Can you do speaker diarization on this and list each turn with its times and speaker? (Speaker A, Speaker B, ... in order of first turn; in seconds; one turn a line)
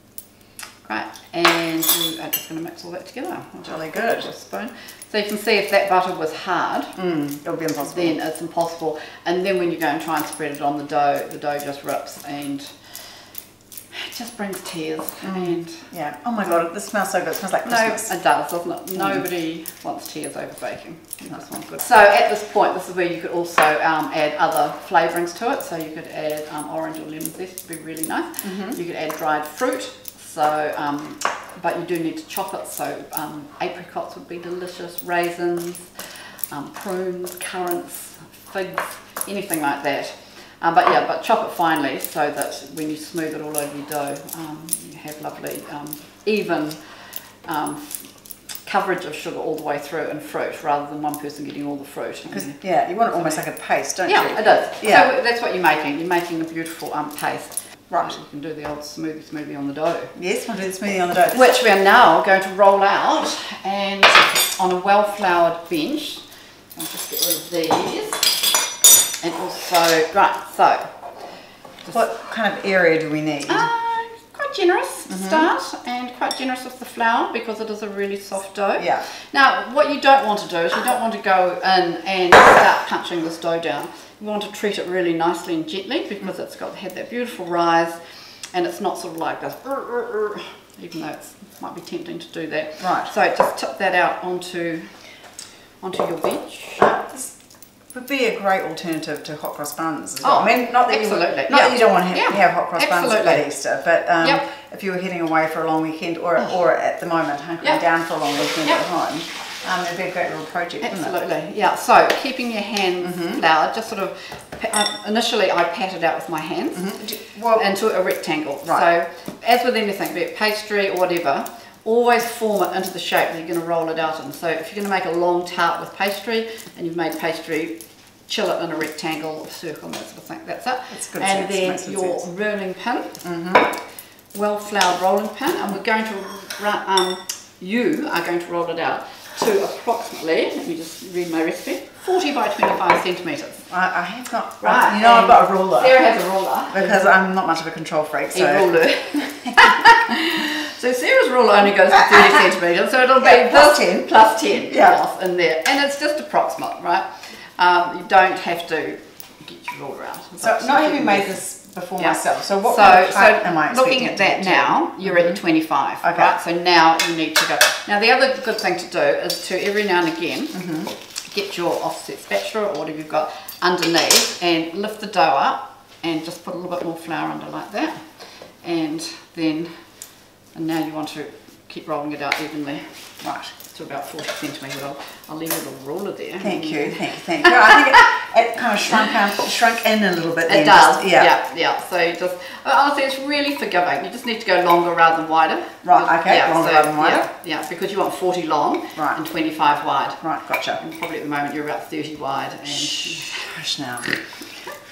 Speaker A: 0.8-7.0
Speaker B: 3.6-4.3
Speaker B: 7.0-8.2
Speaker A: 7.8-12.8
Speaker A: 13.9-15.9
Speaker B: 15.2-18.1
Speaker A: 16.4-16.7
Speaker A: 17.6-46.8
Speaker B: 19.0-19.2
Speaker B: 28.4-28.8
Speaker A: 47.5-48.1
Speaker A: 48.6-53.5
Speaker B: 52.3-55.1
Speaker A: 54.0-60.1
Speaker B: 57.9-58.2
Speaker B: 60.1-61.6
Speaker A: 61.3-66.2
Speaker A: 66.8-68.4
Speaker A: 69.2-70.9
Speaker B: 71.9-73.7
Speaker A: 73.5-88.0
Speaker B: 75.1-75.5
Speaker B: 78.8-79.1
Speaker A: 88.5-95.0
Speaker B: 92.8-93.1
Speaker A: 95.8-96.8
Speaker B: 96.8-97.4
Speaker B: 97.9-111.1
Speaker A: 100.2-103.5
Speaker A: 110.8-133.2
Speaker B: 113.0-113.4
Speaker B: 116.8-117.7
Speaker B: 130.9-132.2
Speaker B: 133.2-133.7
Speaker A: 134.3-143.7
Speaker B: 143.7-146.1
Speaker A: 144.6-147.1
Speaker B: 146.7-149.9
Speaker A: 148.3-161.4
Speaker B: 152.1-152.4
Speaker B: 153.2-155.0
Speaker B: 160.4-165.4
Speaker A: 162.0-170.6
Speaker B: 166.0-166.3
Speaker B: 170.5-170.9
Speaker A: 171.3-179.7
Speaker A: 180.5-183.0
Speaker B: 183.2-183.6
Speaker A: 183.7-187.8
Speaker B: 186.4-191.3
Speaker A: 190.5-200.2
Speaker B: 195.8-197.3
Speaker B: 200.2-200.8
Speaker A: 200.8-203.5
Speaker B: 202.7-204.2